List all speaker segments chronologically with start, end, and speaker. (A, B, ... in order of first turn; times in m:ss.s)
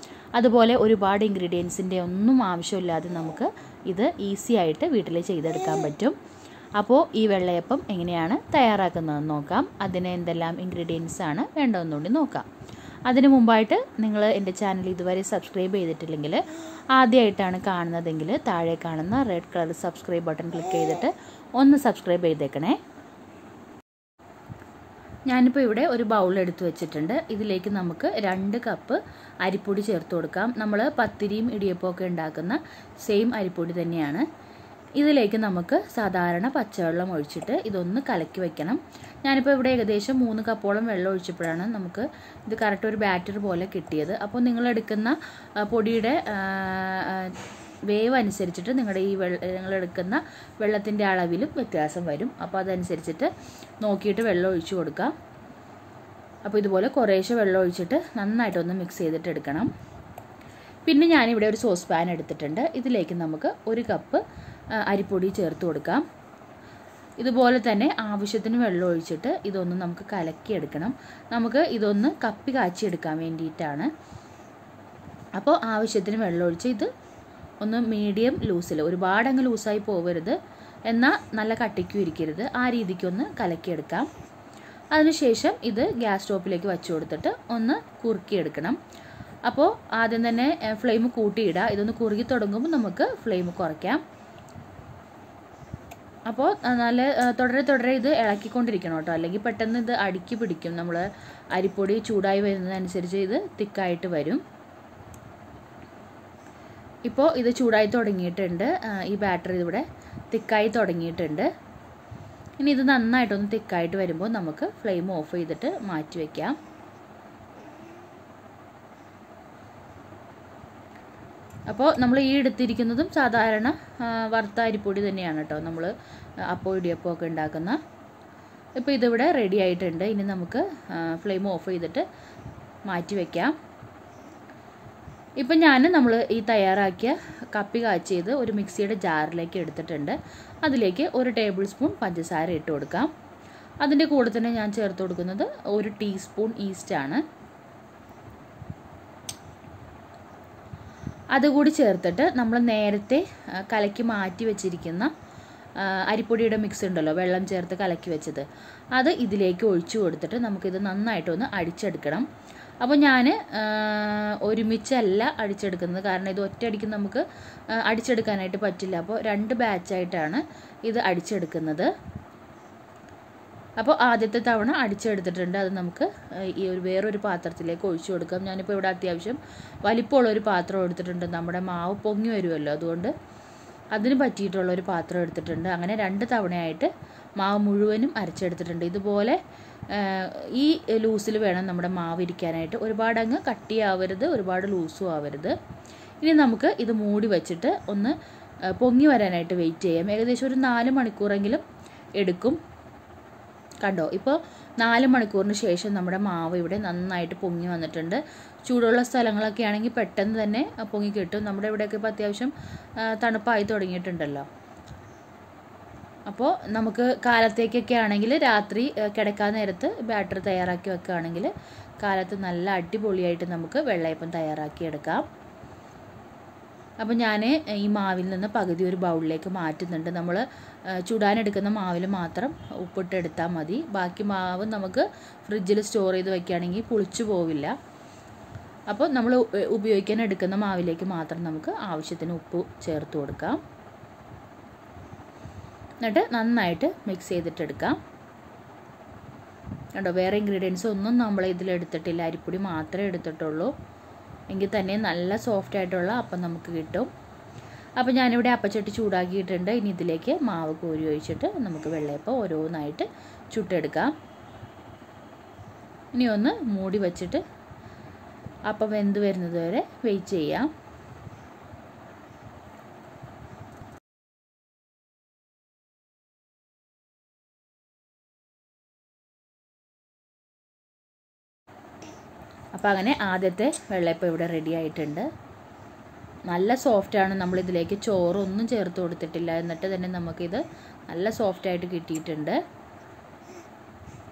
0:00.4-0:06.2 A
0:06.8-0:12.5 A
0:13.1-0:22.8 A
0:25.3-0:34.2 A
0:35.0-0:55.1 A
0:56.4-0:59.7 A
1:00.8-1:06.1 A
1:07.2-1:13.9 A
1:15.4-1:16.9 A
1:17.6-1:24.1 A
1:24.9-1:28.8 A
1:29.5-1:34.0 A
1:36.3-1:44.4 A
1:47.1-1:51.5 A
1:52.6-1:56.6 A
2:01.7-2:05.9 A
2:06.4-2:07.8 A
2:08.8-2:12.1 A
2:12.9-2:13.6 A
2:15.4-2:23.1 A
2:23.8-2:27.2 A
2:31.3-2:35.1 A
2:35.8-2:42.3 A
2:42.8-2:51.9 A
2:53.8-3:03.1 A
3:03.9-3:09.4 A
3:09.9-3:15.6 A
3:16.2-3:18.2 A
3:18.7-3:21.6 A
3:22.2-3:22.6 A
3:23.8-3:34.5 A
3:36.3-3:45.3 A
3:47.0-3:57.8 A
3:58.9-4:03.6 A
4:06.0-4:08.0 A
4:10.0-4:13.7 A
4:14.5-4:17.1 A
4:18.0-4:24.1 A
4:26.1-4:27.4 A
4:28.7-4:30.7 A
4:42.8-4:45.3 A
4:46.5-4:52.6 A